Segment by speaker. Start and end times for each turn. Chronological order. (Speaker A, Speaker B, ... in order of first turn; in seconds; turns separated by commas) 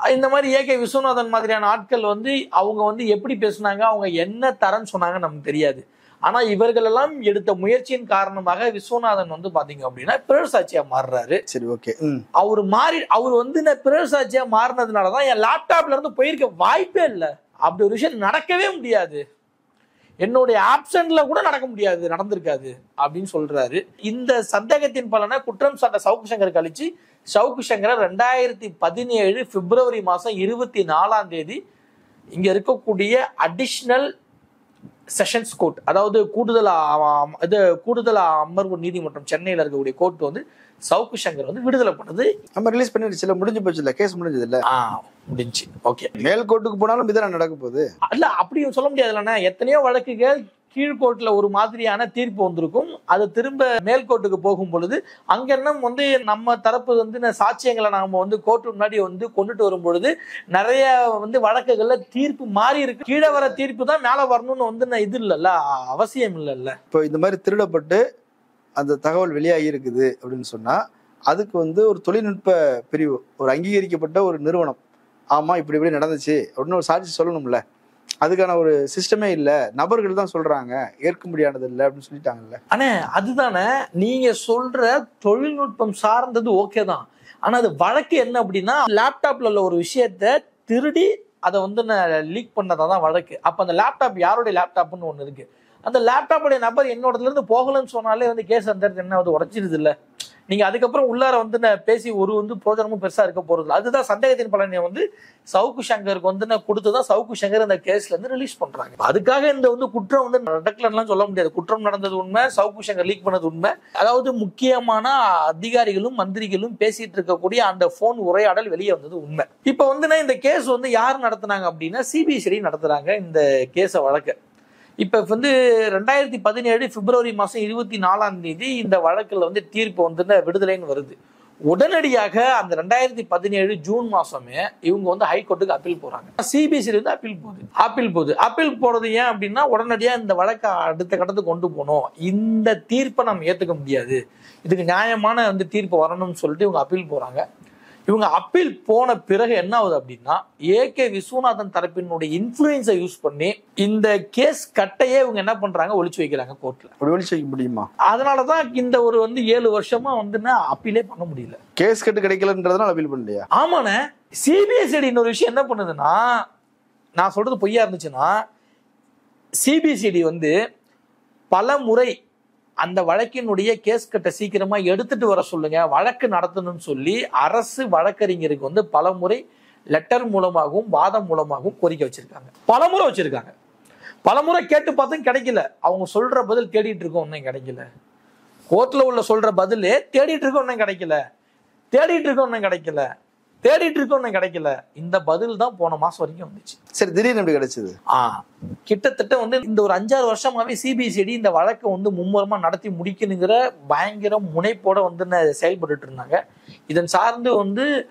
Speaker A: 0.1-11.4, Speaker B: 11.5-12.2, Speaker A: 12.4-19.2, Speaker A: 20.2-31.6, Speaker A: 32.3-34.1, Speaker A: 35.2-42.3, Speaker B: 42.5-44.6, Speaker A: 44.7-46.2, Speaker B: 46.2-47.9, Speaker A: 48.1-66.7, Speaker B: 66.9-68.0, Speaker B: 68.8-74.8, Speaker B: 75.3-77.6, Speaker B: 78.2-82.6, Speaker A: 82.7-99.9, Speaker A: 100.5-105.0, Speaker A: 105.5-124.3, Speaker A: 125.0-131.2, Speaker A: 131.7-147.4, Speaker A: 148.1-156.9, Speaker B: 157.0-157.9, Speaker A: 158.1-161.6, Speaker B: 161.8-163.5, Speaker A: 163.6-166.2, Speaker A: 167.2-168.3, Speaker A: 169.6-170.5, Speaker A: 171.5-172.1, Speaker A: 172.8-179.4, Speaker A: 179.9-183.5, Speaker A: 184.2-187.8, Speaker A: 188.7-191.2, Speaker A: 191.9-193.0, Speaker A: 193.6-196.8, Speaker B: 197.0-197.9, Speaker A: 198.1-207.9